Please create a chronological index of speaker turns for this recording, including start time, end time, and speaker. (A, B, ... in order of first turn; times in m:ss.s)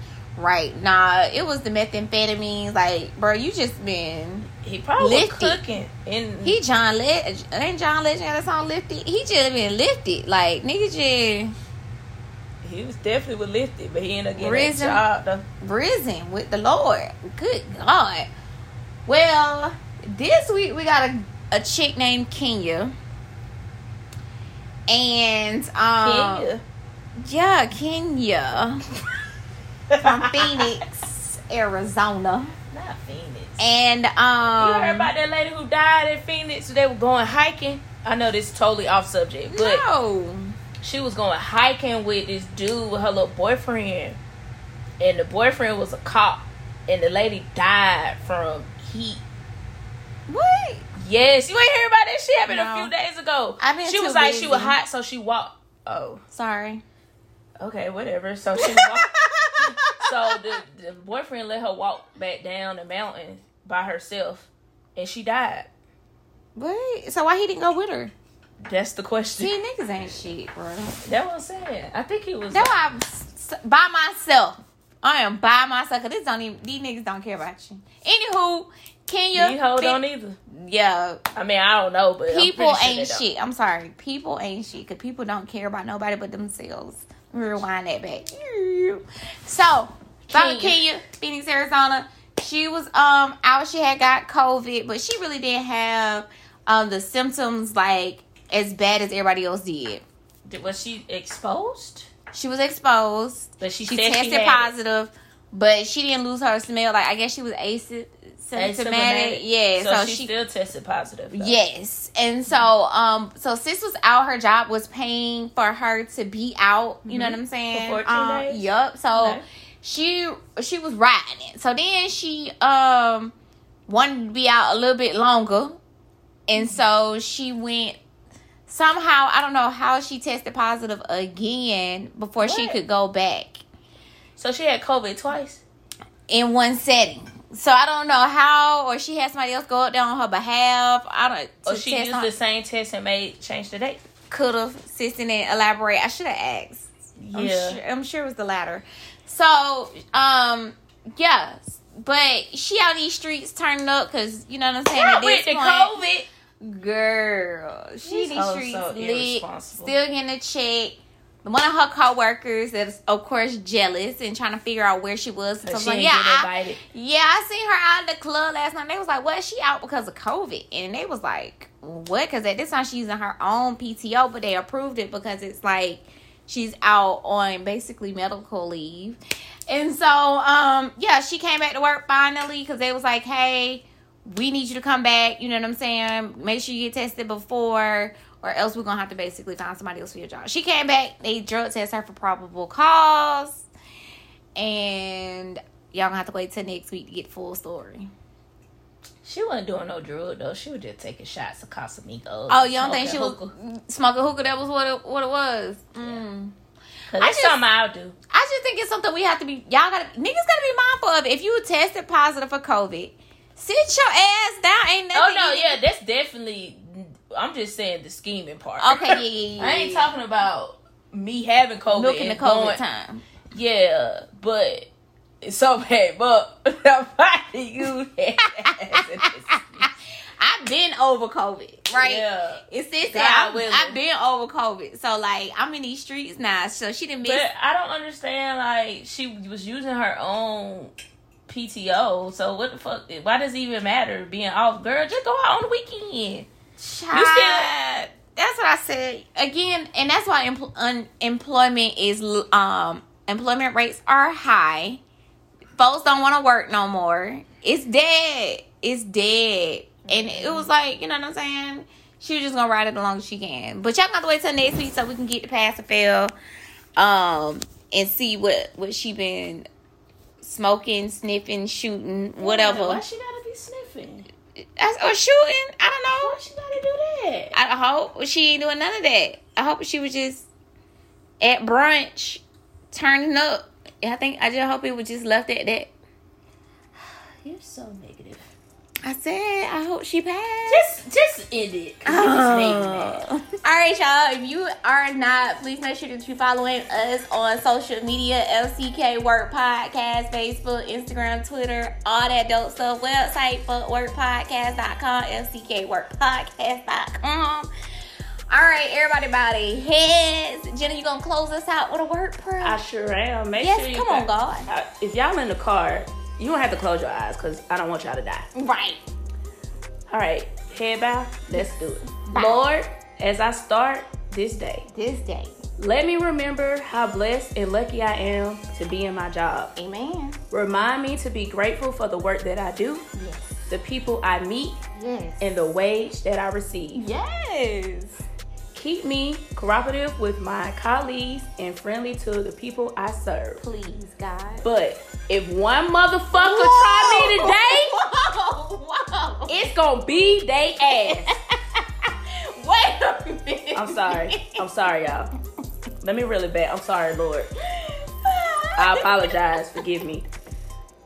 0:00.4-0:05.6 A
0:04.6-0:06.6 B
0:06.4-0:11.6 A
0:12.6-0:15.4 B
0:14.4-0:15.0 A
0:15.6-0:18.3 A
0:19.1-0:22.9 A
0:24.9-0:26.5 A
0:26.0-0:26.6 B
0:27.2-0:28.8 A
0:29.9-0:30.7 B
0:30.0-0:32.5 A
0:32.7-0:33.6 B
0:33.6-0:35.1 A
0:34.4-0:39.8 B
0:39.5-0:40.6 A
0:40.8-0:44.2 B
0:45.0-0:49.2 B
0:50.3-0:50.9 A
0:51.0-0:56.2 B
0:52.5-0:52.9 A
0:53.6-0:54.8 A
0:56.3-0:56.8 A
0:57.6-0:59.1 B
0:58.6-1:00.4 A
0:59.6-1:05.7 B
1:06.6-1:08.1 A
1:08.6-1:09.5 B
1:09.4-1:11.0 A
1:11.0-1:12.7 B
1:12.5-1:21.2 A
1:19.4-1:20.4 B
1:21.4-1:23.2 B
1:22.3-1:40.0 A
1:30.3-1:30.8 B
1:40.5-1:42.1 B
1:42.3-1:50.3 A
1:43.6-1:44.7 B
1:48.6-1:51.5 B
1:51.3-2:03.3 A
1:57.1-1:59.4 B
2:03.9-2:05.8 A
2:06.5-2:08.0 A
2:06.6-2:06.8 B
2:08.7-2:13.6 A
2:12.4-2:12.8 B
2:14.4-2:15.6 B
2:16.3-2:22.3 A
2:21.6-2:24.0 B
2:24.3-2:36.0 A
2:27.2-2:27.8 B
2:34.9-2:36.3 B
2:36.6-3:13.6 A
2:38.0-2:39.9 B
2:45.6-2:46.8 B
3:14.6-3:18.1 A
3:19.2-3:23.5 B
3:22.5-3:26.5 A
3:26.0-3:26.2 B
3:27.1-3:28.2 B
3:27.2-3:27.6 A
3:28.3-3:35.8 A
3:35.1-3:42.8 B
3:38.8-3:40.1 A
3:41.9-3:43.2 A
3:43.5-3:44.9 B
3:45.4-3:49.9 B
3:49.5-3:57.5 A
3:52.0-3:54.0 B
3:57.2-4:00.9 B
4:01.5-4:06.5 B
4:06.8-4:07.7 A
4:07.1-4:08.1 B
4:08.3-4:15.0 A
4:15.8-4:26.3 A
4:20.1-4:20.7 B
4:27.0-4:29.7 A
4:30.4-4:33.0 A
4:32.4-4:34.3 B
4:34.8-4:36.4 A
4:36.2-4:37.6 B
4:37.5-4:40.5 A
4:41.4-4:45.9 A
4:47.0-4:48.5 B
4:49.0-4:50.9 A
4:50.7-4:53.2 B
4:52.1-5:07.7 A
5:08.5-5:12.8 A
5:12.6-5:18.5 B
5:13.6-5:14.7 A
5:18.6-5:19.0 A
5:20.1-5:24.9 B
5:21.5-5:22.6 A
5:24.9-5:25.6 A
5:25.8-5:29.7 B
5:29.8-5:30.4 A
5:30.5-5:33.1 B
5:33.2-5:33.6 A
5:33.7-5:34.8 B
5:34.9-5:35.4 A
5:35.4-5:37.0 B
5:37.0-5:38.2 A
5:38.7-5:43.6 B
5:43.6-5:44.7 A
5:44.6-5:48.0 B
5:46.3-5:49.7 A
5:49.5-5:51.3 B
5:51.0-5:54.6 A
5:53.7-5:55.3 B
5:56.0-5:57.5 B
5:57.6-5:59.3 A
5:58.8-6:00.3 B